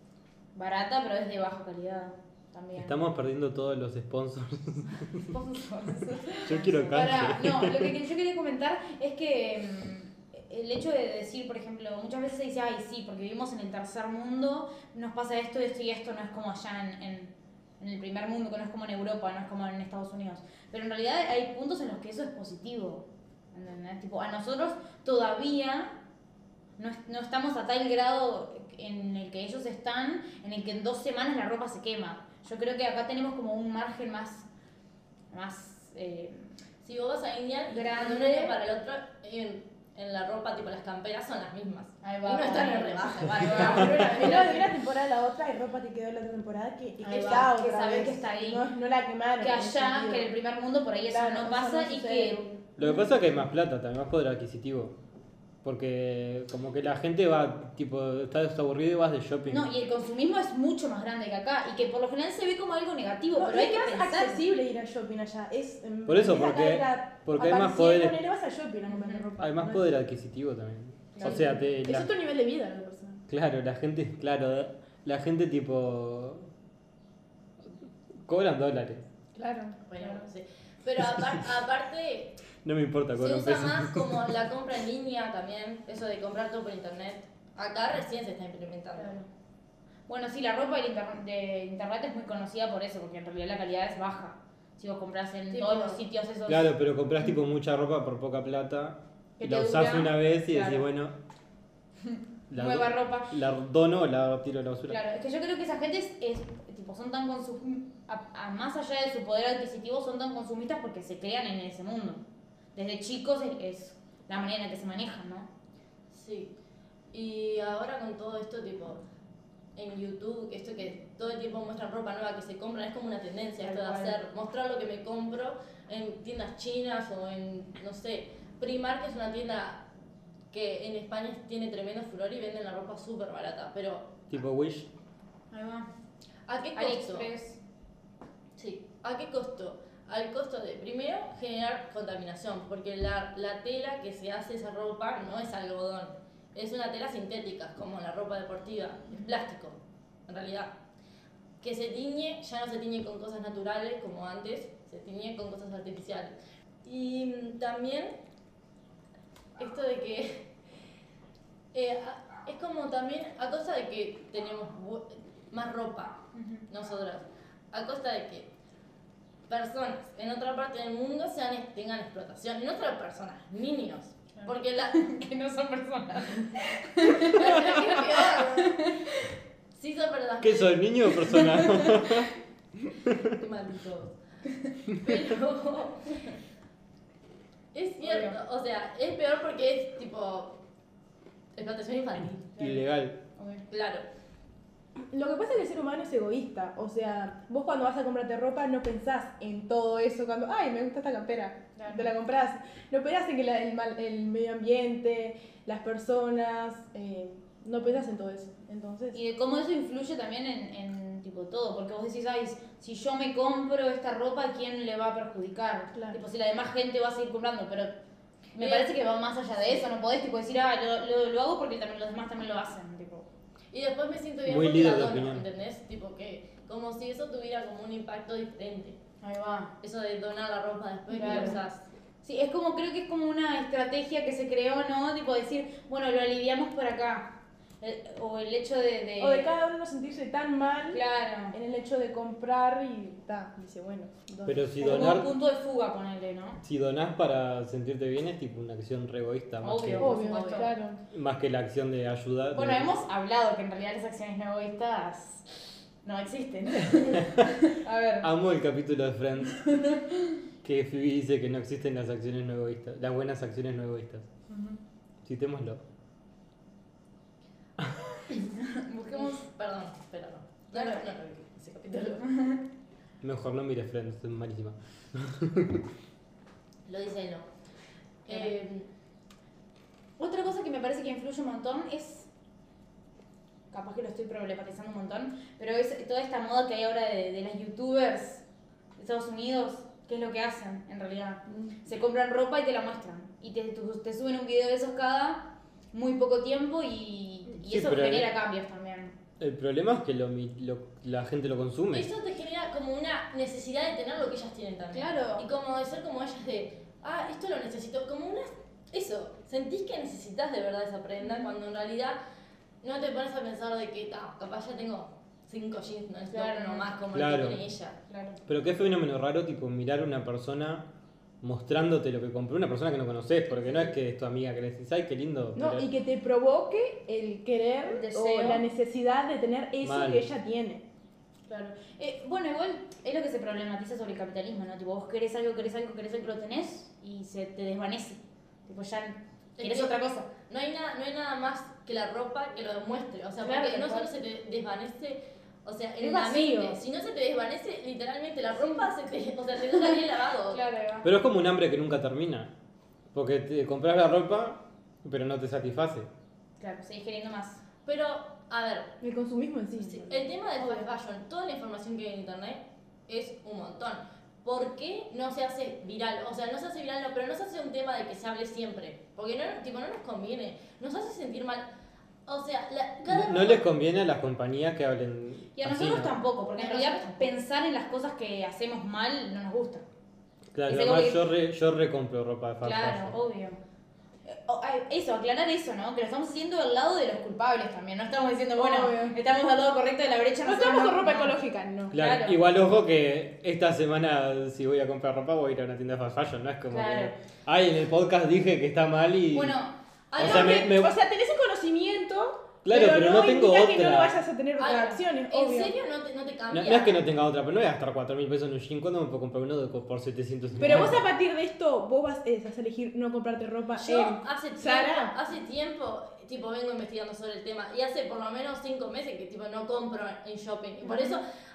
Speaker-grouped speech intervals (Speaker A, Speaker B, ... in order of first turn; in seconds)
Speaker A: 0.5-3.0, 5.3-5.6, 6.2-26.0, 26.8-34.5, 35.3-36.6, 37.7-38.6, 42.0-44.6, 47.0-48.6, 49.4-52.4, 59.5-64.4, 68.9-69.3, 71.2-71.4, 90.1-96.7, 99.4-100.8, 102.0-103.3, 104.9-112.2, 112.8-115.5, 135.5-135.9, 136.8-137.6, 166.3-166.7, 174.4-179.4, 181.2-182.2, 188.0-188.4, 192.6-193.7, 201.8-202.1, 209.1-217.9, 218.5-223.3, 229.2-229.7, 231.1-231.6, 232.2-239.5, 240.9-241.6, 244.8-246.6, 249.6-250.8, 252.5-258.3, 259.6-260.4, 268.5-269.4, 270.7-271.1, 272.2-272.7, 278.3-278.5, 280.2-282.3, 283.7-288.4, 289.0-299.1, 304.9-305.5, 311.2-311.6, 316.3-316.9, 318.1-318.4, 327.9-328.6, 331.5-340.3, 343.4-344.1, 346.0-346.8, 348.6-348.9, 350.5-351.1, 356.6-357.6, 375.6-379.8, 380.7-381.2, 382.6-383.6, 384.2-391.4, 391.9-392.4, 396.7-397.1, 399.3-399.8
Speaker B: 2.8-5.3, 6.4-7.9, 52.8-55.0, 55.6-59.8, 66.1-68.2, 69.4-72.1, 73.3-76.5, 78.2-79.1, 82.6-84.3, 96.5-101.1, 102.5-105.0, 134.3-134.9, 180.4-183.2, 192.6-193.2, 224.5-225.4, 244.5-245.3, 246.6-250.2, 251.1-252.9, 257.0-257.6, 258.2-259.7, 260.6-264.3, 265.2-265.8, 267.8-268.2, 273.2-275.9, 297.6-298.3, 299.4-302.1, 317.1-317.6, 318.5-320.9, 321.4-325.9, 329.8-330.2, 351.0-352.5, 353.1-356.1, 373.1-376.2, 380.5-383.2, 391.9-399.6, 400.2-400.9, 402.6-404.2, 406.5-411.0
Speaker C: 5.6-6.8, 43.4-50.3, 51.1-53.0, 63.4-69.9, 71.2-73.2, 79.3-80.3, 89.0-89.3, 195.1-209.2, 215.9-216.2, 231.2-231.6, 239.2-245.2, 250.0-251.0, 325.6-330.8, 359.0-360.9, 388.6-389.2, 390.4-391.9, 400.1-405.7, 410.6-415.1
Speaker D: 36.8-44.6, 47.1-47.5, 79.9-82.4, 83.2-89.2, 95.5-96.0, 116.1-116.5, 117.1-119.0, 119.8-129.8, 130.5-134.2, 136.5-137.3, 138.6-150.7, 151.6-158.2, 159.6-160.5, 161.7-168.5, 169.5-175.1, 177.2-178.9, 179.7-181.2, 183.1-184.2, 184.9-186.3, 187.7-190.6, 191.6-192.5, 193.7-194.1, 218.6-218.9, 223.7-229.0, 229.8-231.9, 250.1-250.7, 269.1-272.2, 276.9-277.5, 278.2-278.9, 301.9-312.2, 312.8-318.0, 339.6-350.6, 357.9-358.9, 359.8-371.7, 372.3-373.6, 376.6-377.3, 400.1-400.7, 404.6-407.0, 413.8-421.2